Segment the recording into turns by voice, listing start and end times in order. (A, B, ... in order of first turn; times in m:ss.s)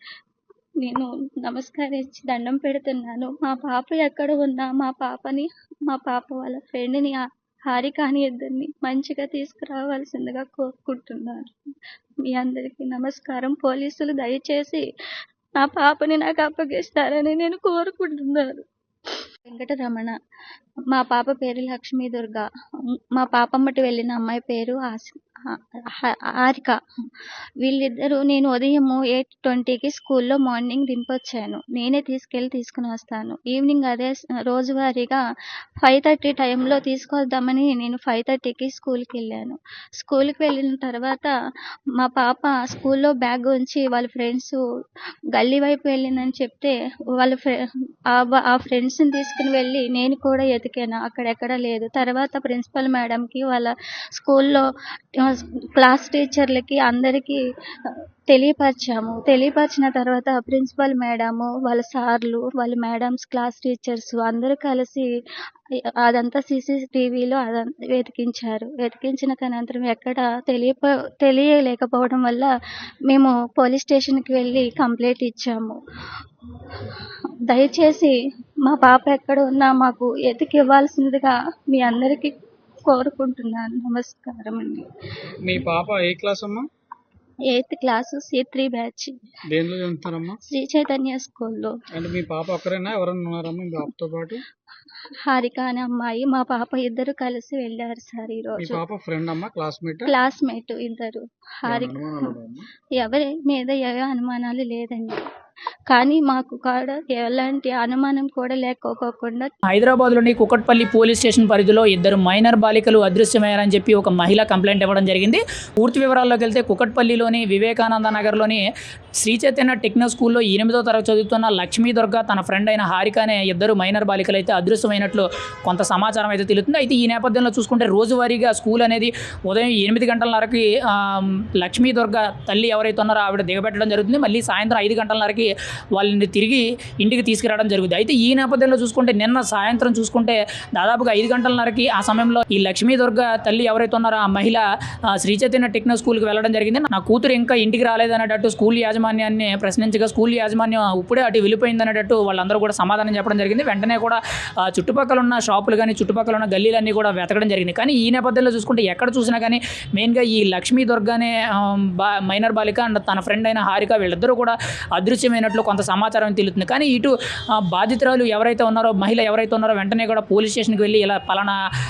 0:00.8-0:11.5 A
0:12.2-0:14.8 A
0:15.6-0:20.1 A
0:20.9-0:22.5 A
0:23.2-0:26.8 A
0:27.6-0:35.2 A
0:35.8-0:41.3 A
0:42.0-0:44.6 A
0:45.3-0:47.6 A
0:48.1-0:54.6 A
0:55.2-1:05.1 A
1:06.0-1:12.5 A
1:13.1-1:15.8 A
1:16.6-1:22.4 A
1:22.9-1:24.9 A
1:25.4-1:26.7 B
1:27.5-1:29.2 A
1:29.5-1:30.4 B
1:30.5-1:31.7 A
1:32.0-1:34.4 B
1:35.3-1:38.8 A
1:38.6-1:40.1 B
1:40.1-1:42.3 A
1:41.7-1:42.6 B
1:43.0-1:45.3 A
1:45.9-1:49.5 A
1:49.7-1:58.6 C
1:59.2-2:51.6 C